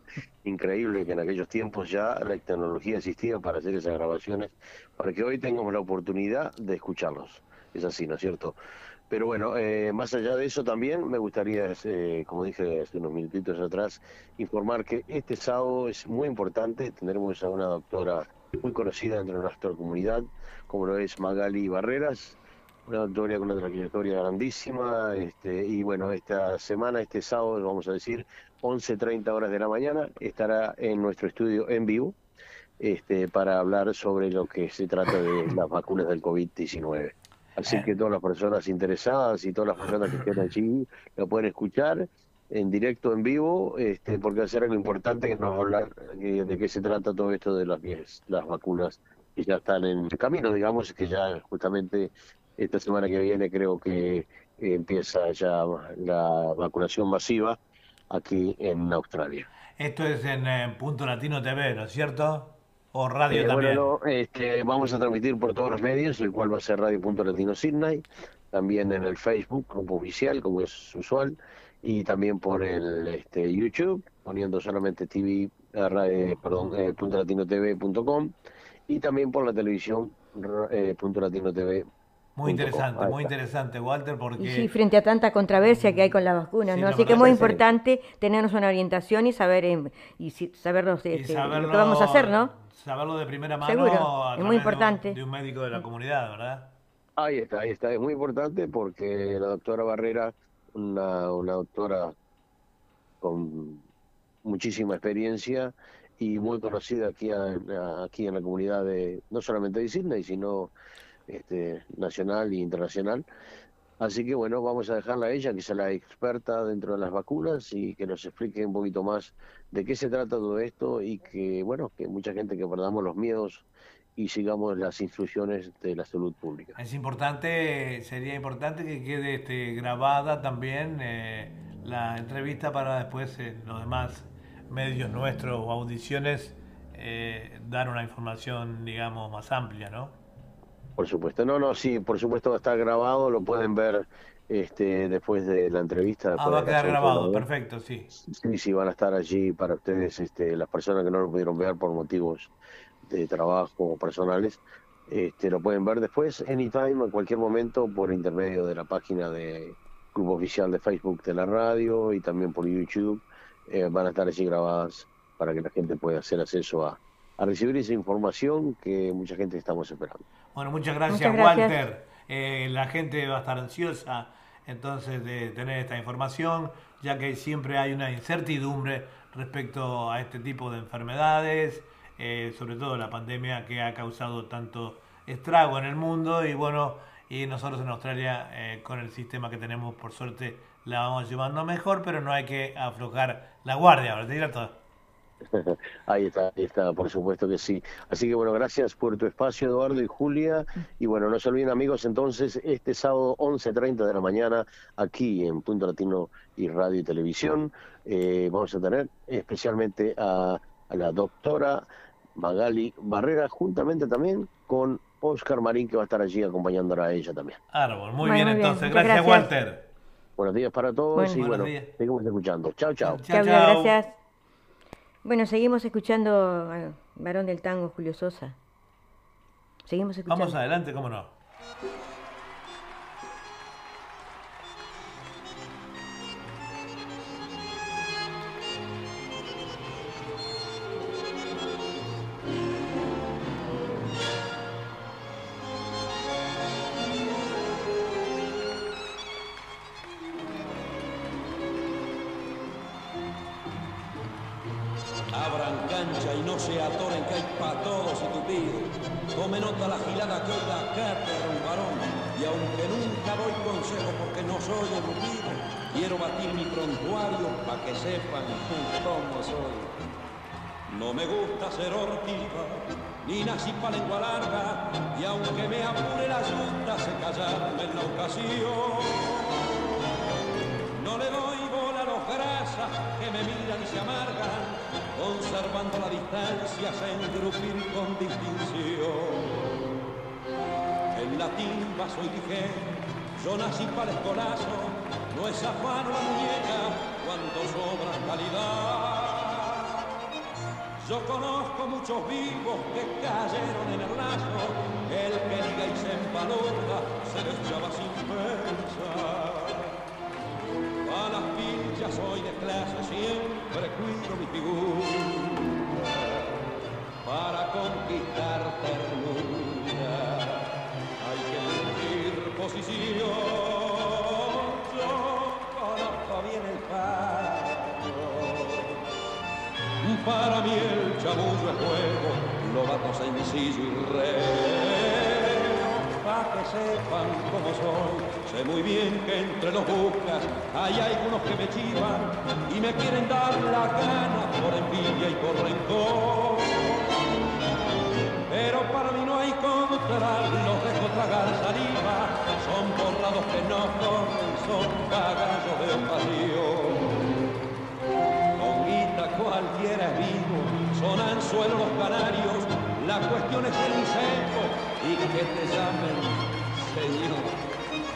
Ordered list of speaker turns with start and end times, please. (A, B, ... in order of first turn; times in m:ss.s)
0:00.4-0:08.6 A
0:09.1-0:32.2 A
0:32.8-0:57.6 A
0:58.1-0:59.5 A
0:59.8-1:03.8 B
1:03.3-1:18.4 A
1:18.9-1:21.9 A
1:22.4-1:24.7 B
1:22.4-1:23.3 A
1:24.4-1:32.5 C
1:25.6-1:26.0 B
1:26.6-1:27.6 B
1:27.1-1:27.6 A
1:31.1-1:36.7 B
1:33.6-1:35.2 C
1:37.2-1:42.2 A
1:43.2-1:43.8 A
1:44.4-1:50.7 A
1:51.3-1:53.2 A
1:54.0-2:03.7 A
2:04.2-2:06.8 A
2:06.8-2:20.2 B
2:21.0-2:27.5 A
2:26.4-2:28.1 B
2:28.1-2:32.5 A
2:33.0-2:50.2 A
2:50.6-3:14.8 B
2:51.1-2:51.8 C
3:15.5-3:31.8 A
3:32.4-3:37.6 A
3:37.7-3:39.8 B
3:38.2-3:39.5 C
3:40.4-3:43.2 A
3:41.4-3:41.9 B
3:43.0-3:43.9 B
3:43.3-3:44.2 C
3:45.2-3:48.6 C
3:49.9-3:50.5 C
3:50.3-3:51.3 B
4:15.3-4:29.9 D
4:30.9-4:39.6 D
4:41.0-4:49.7 D
4:51.1-5:00.0 D
5:01.0-5:10.0 D
5:11.0-5:16.3 D
5:17.2-5:29.0 D
5:30.0-5:47.1 D
5:48.5-5:57.2 D
5:58.6-6:07.6 D